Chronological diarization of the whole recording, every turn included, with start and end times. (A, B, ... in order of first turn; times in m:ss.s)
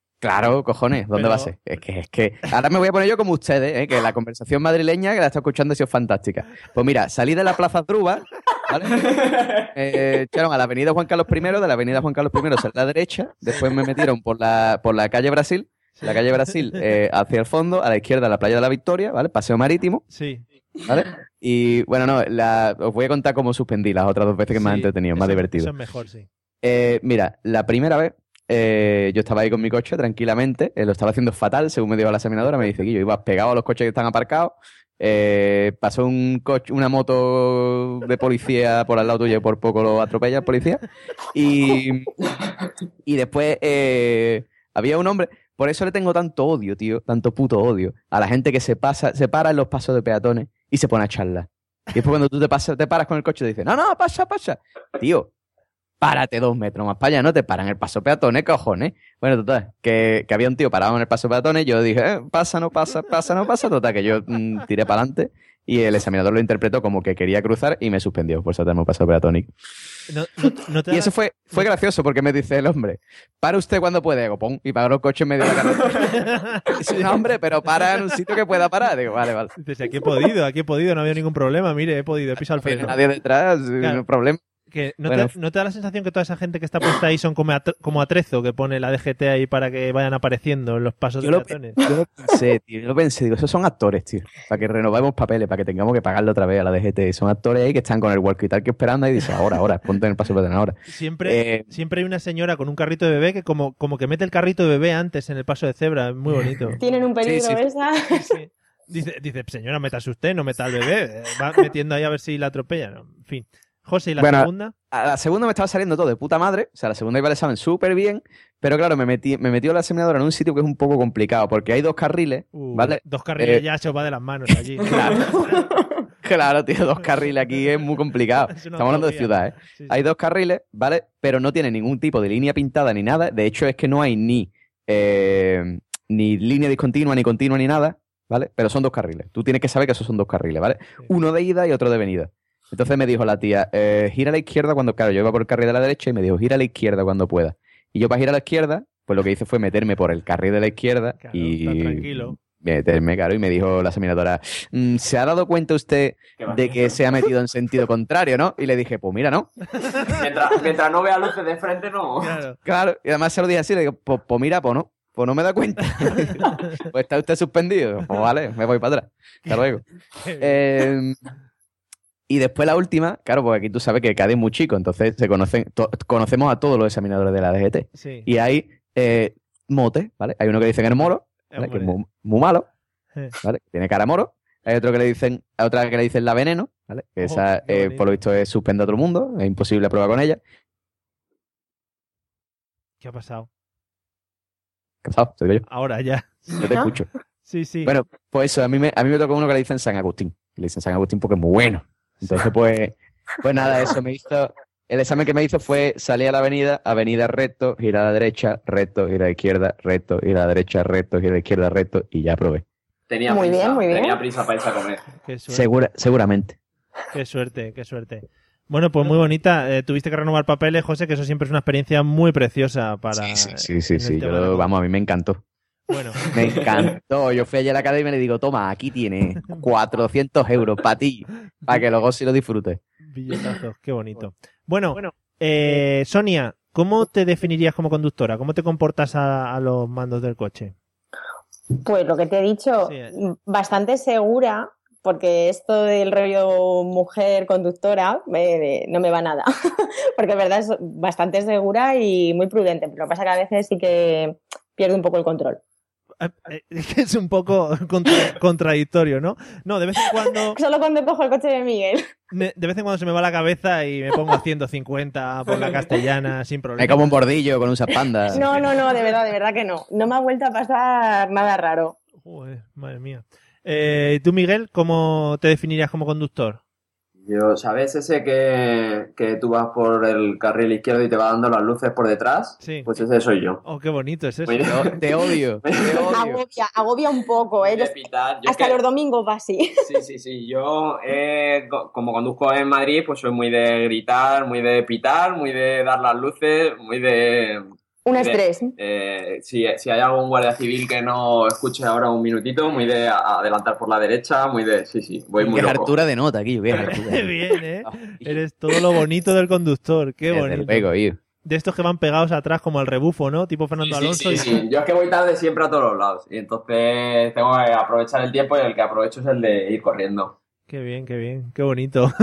0:00.2-0:20.0 A
0:01.1-0:01.5 B
0:09.0-0:09.7 C
0:16.0-0:16.8 B
0:20.1-0:20.4 B
0:20.9-0:25.7 A
0:24.5-0:26.3 B
0:26.6-0:42.1 A
0:43.0-0:55.3 A
0:56.0-1:09.5 A
1:10.1-1:11.7 B
1:10.9-1:16.1 A
1:16.1-1:17.2 B
1:16.8-1:19.5 A
1:19.6-1:23.0 B
1:22.6-1:24.4 A
1:24.7-1:31.8 B
1:25.0-1:25.3 A
1:31.2-1:41.7 A
1:40.9-1:46.8 B
1:46.8-1:48.3 D
1:47.2-1:47.6 A
1:48.1-1:54.7 B
1:54.2-2:03.6 A
2:02.5-2:05.7 B
2:04.8-2:05.5 A
2:06.2-2:39.5 A
2:07.0-2:10.0 B
2:31.2-2:32.4 B
2:36.4-2:37.0 C
2:39.7-2:40.2 B
2:40.1-2:42.4 C
2:42.2-2:42.6 B
2:42.6-2:49.8 A
2:46.1-2:46.8 B
2:50.2-2:50.6 B
2:50.4-2:51.2 A
2:52.3-3:02.7 A
2:57.9-2:58.3 B
3:01.5-3:02.0 B
3:03.4-3:10.4 A
3:07.2-3:08.1 B
3:13.0-3:13.5 B
3:15.0-3:15.6 A
3:15.7-3:16.6 B
3:16.6-3:17.1 A
3:17.4-3:17.9 B
3:17.8-3:32.6 A
3:22.2-3:22.5 B
3:33.1-3:35.0 C
3:33.3-3:34.2 D
3:35.2-3:35.8 B
3:35.5-3:36.6 A
3:37.1-3:44.7 B
3:43.1-3:45.4 A
3:45.9-3:46.2 B
3:46.3-3:52.8 A
3:46.4-3:46.9 C
3:53.0-4:00.7 B
4:01.8-4:15.6 D
4:02.8-4:03.1 B
4:16.2-4:20.6 B
4:20.5-4:22.0 D
4:22.3-4:27.2 B
4:26.8-4:28.4 A
4:28.3-4:32.0 D
4:28.3-4:28.6 B
4:32.2-4:36.6 B
4:37.2-4:43.6 C
4:42.6-4:42.9 B
4:43.6-4:44.7 B
4:44.4-4:45.0 C
4:44.6-4:46.4 A
4:45.6-4:46.1 C
4:46.1-4:47.9 D
4:47.6-4:48.8 C
4:48.4-4:49.7 D
4:49.8-4:57.6 C
4:58.0-4:58.7 D
4:58.1-5:05.9 C
5:05.4-5:07.3 A
5:06.8-5:10.9 B
5:07.8-5:08.4 A
5:10.3-5:11.2 A
5:11.4-5:14.6 B
5:13.8-5:20.3 C
5:20.7-5:22.1 B